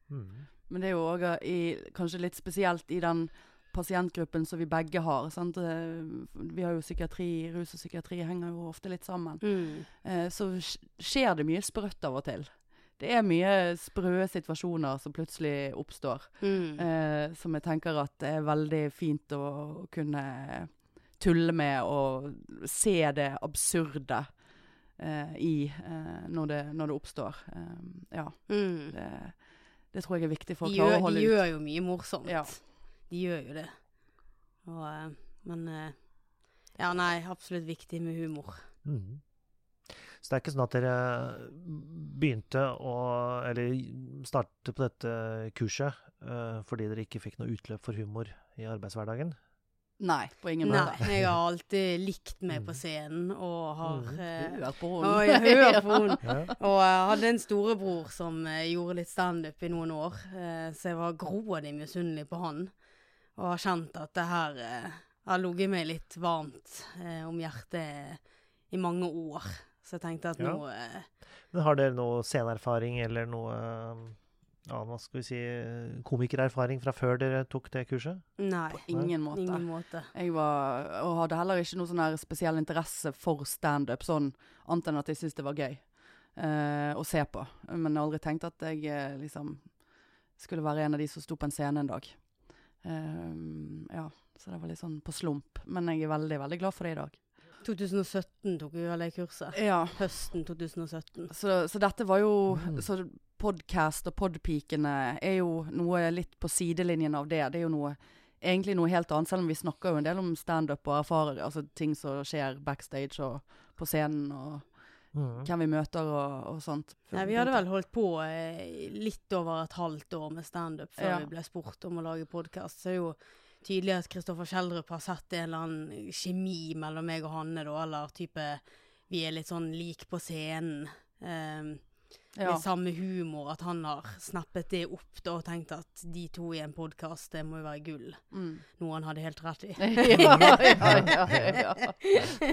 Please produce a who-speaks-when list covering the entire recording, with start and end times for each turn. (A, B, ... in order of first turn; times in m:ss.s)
0:00.1-0:00.5 A
0:00.7-0:32.6 B
0:09.4-0:09.9 C
0:16.4-0:16.8 C
0:28.5-0:28.9 C
0:30.6-0:38.7 C
0:38.8-0:39.2 A
0:39.8-0:49.4 A
0:50.0-0:51.0 B
0:50.6-1:11.1 C
0:50.7-0:51.3 A
0:52.5-0:52.8 A
0:53.8-0:54.2 A
0:54.4-0:56.5 B
0:56.2-0:56.5 A
1:10.4-1:10.6 A
1:11.5-1:19.1 A
1:18.4-1:20.1 C
1:18.9-1:37.2 B
1:37.6-1:41.3 C
1:39.5-1:40.3 B
1:41.3-1:57.7 B
1:42.5-1:42.9 A
1:55.1-1:55.5 A
1:57.1-2:22.3 C
2:01.0-2:01.3 B
2:12.3-2:12.6 B
2:18.3-2:18.6 B
2:19.8-2:22.2 B
2:20.1-2:21.6 A